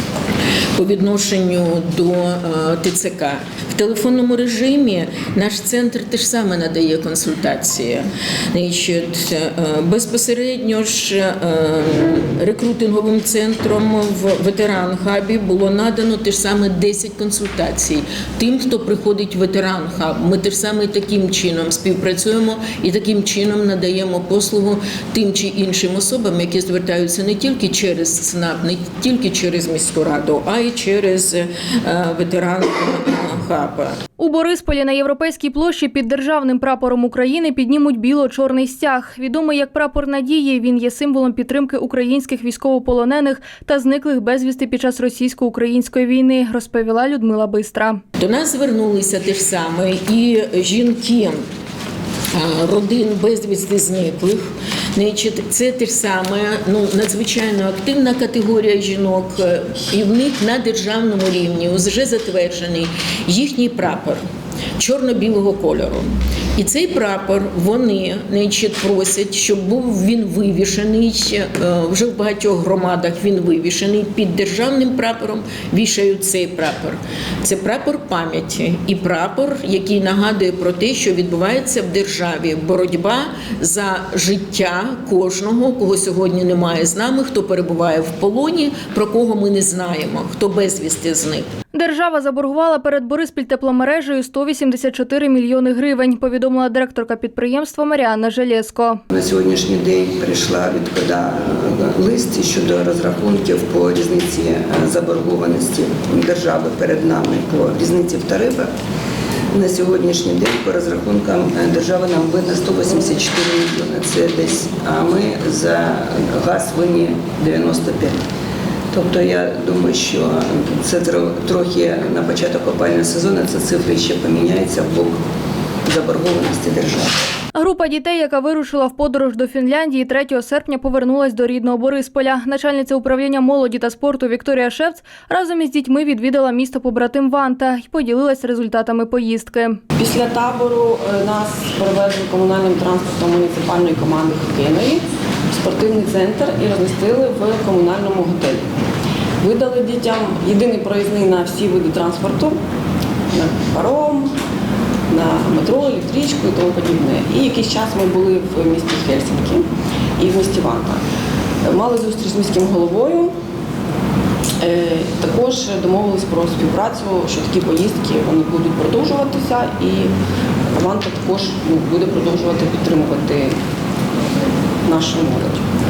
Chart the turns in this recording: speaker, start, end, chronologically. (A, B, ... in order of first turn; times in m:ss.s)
0:00.8-0:34.0 A
0:34.2-0:48.0 B
0:48.2-0:51.4 A
0:52.3-1:04.2 A
1:04.8-1:31.4 A
1:31.7-1:39.0 B
1:39.1-1:48.7 C
1:49.5-1:58.2 C
1:58.9-2:05.2 C
2:05.8-2:07.2 C
2:07.5-2:19.8 B
2:20.0-2:28.7 D
2:29.4-2:32.6 D
2:33.3-2:34.4 D
2:35.1-2:41.0 D
2:41.6-2:43.3 D
2:44.6-2:50.1 D
2:50.7-2:53.6 D
2:54.8-2:55.6 D